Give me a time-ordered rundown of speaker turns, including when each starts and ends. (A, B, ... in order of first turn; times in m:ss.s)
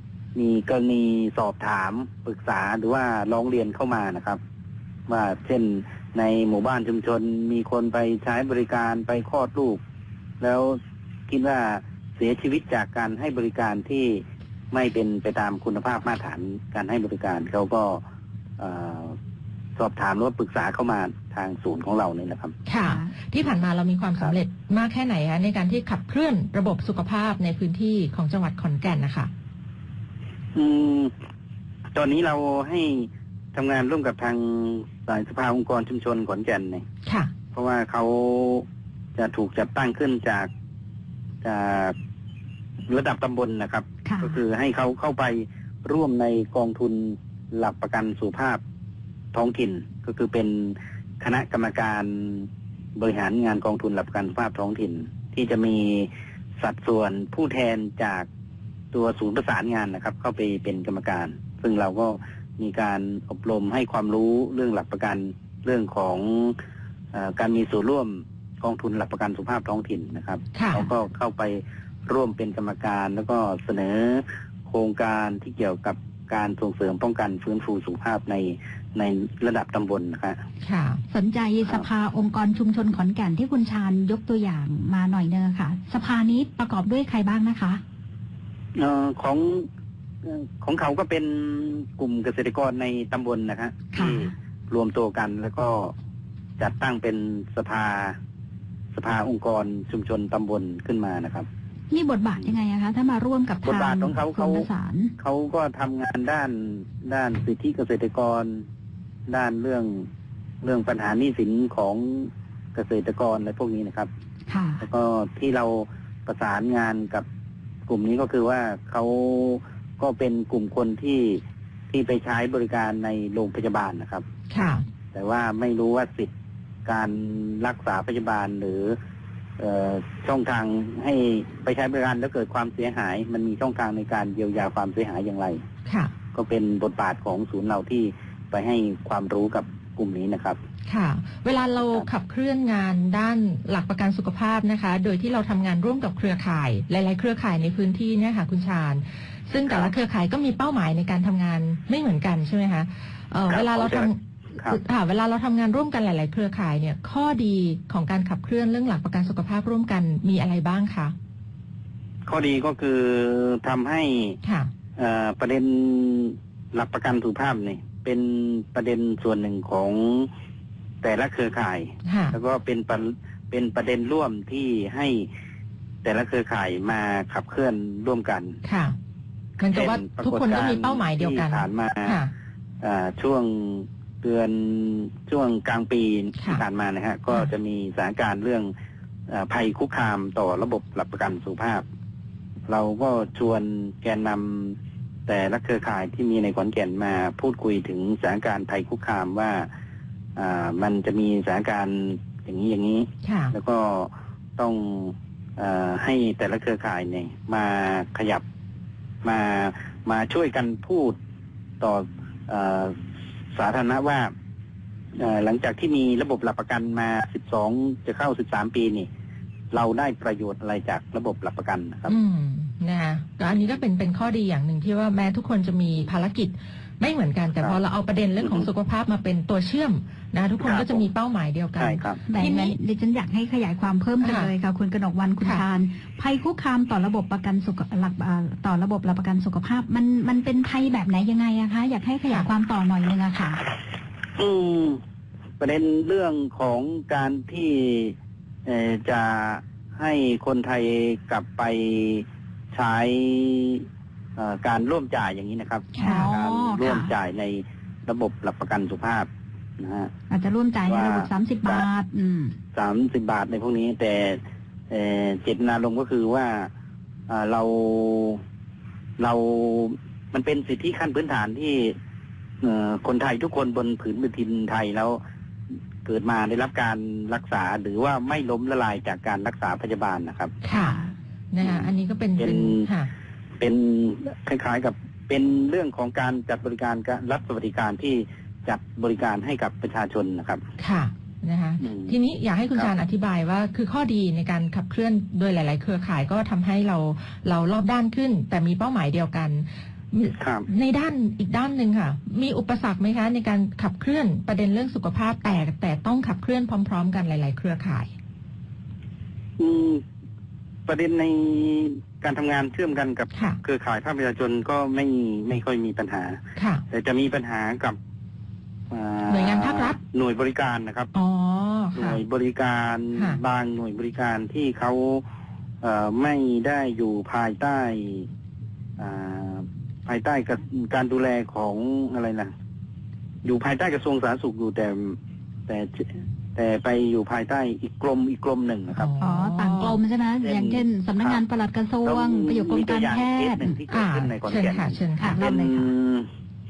0:00.3-0:04.4 A
0:05.1-0:09.8 A
0:10.4-0:18.0 A
0:18.6-0:19.2 A
0:19.8-0:22.6 A
0:22.6-0:29.3 B
0:22.8-0:23.1 C
0:30.5-0:31.1 A
0:31.9-0:36.8 A
0:37.0-0:37.3 B
0:37.5-0:40.5 A
0:41.4-0:41.9 A
0:42.9-0:48.6 A
0:44.0-0:44.4 C
0:49.3-0:58.3 A
0:58.9-1:06.6 A
1:07.1-1:20.4 A
1:10.5-1:10.9 B
1:20.6-1:21.0 B
1:21.1-1:27.8 C
1:28.7-1:29.7 A
1:30.2-1:35.9 A
1:33.9-1:34.3 C
1:36.6-1:38.2 A
1:38.9-1:41.5 A
1:41.9-1:45.2 C
1:43.6-1:44.7 A
1:45.2-1:48.6 A
1:49.3-1:50.1 A
1:50.6-1:54.1 A
1:54.5-1:54.8 C
1:54.8-1:57.2 A
1:57.9-2:04.2 A
2:04.5-2:04.8 B
2:05.1-2:06.3 A
2:06.8-2:09.0 A
2:09.6-2:15.6 A
2:15.9-2:16.1 B
2:16.3-2:20.6 A
2:20.9-2:41.1 B
2:21.8-2:22.1 A
2:29.7-2:29.9 A
2:33.5-2:34.8 A
2:42.2-2:44.4 A
2:44.4-2:44.7 B
2:45.0-2:50.3 A
2:51.0-2:55.3 A
2:52.0-2:52.4 B
2:56.0-2:58.6 A
2:58.6-2:58.9 B
2:59.6-3:02.3 B
2:59.6-3:02.2 A
3:02.8-3:08.7 A
3:06.4-3:06.6 B
3:09.3-3:11.8 A
3:12.7-3:14.8 A
3:15.3-3:19.7 A
3:20.4-3:28.4 A
3:23.2-3:23.5 B
3:29.2-3:31.2 A
3:31.8-3:33.0 A
3:33.5-3:34.3 A
3:35.2-3:39.1 A
3:39.7-3:42.1 A
3:42.1-3:52.8 B
3:48.4-3:48.7 A
3:50.6-3:51.0 A
3:51.7-3:52.2 A
3:52.3-4:03.6 C
3:54.2-3:54.5 B
4:04.4-4:05.0 A
4:05.6-4:08.1 A
4:08.6-4:20.1 A
4:15.9-4:17.1 C
4:20.3-4:22.6 C
4:20.8-4:21.9 A
4:22.7-4:26.7 A
4:27.3-4:28.4 A
4:29.2-4:32.0 A
4:32.6-4:35.2 A
4:36.0-4:40.6 A
4:40.6-4:41.0 B
4:40.7-4:41.2 C
4:41.5-4:43.1 B
4:41.6-4:42.9 A
4:43.6-4:50.6 A
4:50.8-5:08.1 B
4:51.8-4:52.2 A
5:00.4-5:00.6 A
5:09.6-5:10.0 A
5:10.9-5:18.0 A
5:13.3-5:13.6 B
5:16.6-5:16.8 B
5:18.9-5:21.1 A
5:19.3-5:20.0 B
5:21.1-5:22.2 B
5:21.9-5:25.2 A
5:23.1-5:23.4 B
5:25.8-5:28.3 A
5:29.0-5:32.5 A
5:33.4-5:39.1 A
5:38.9-5:40.0 B
5:39.2-5:43.8 C
5:40.4-5:41.4 A
5:42.0-5:46.3 A
5:43.9-5:45.5 B
5:45.2-5:45.9 C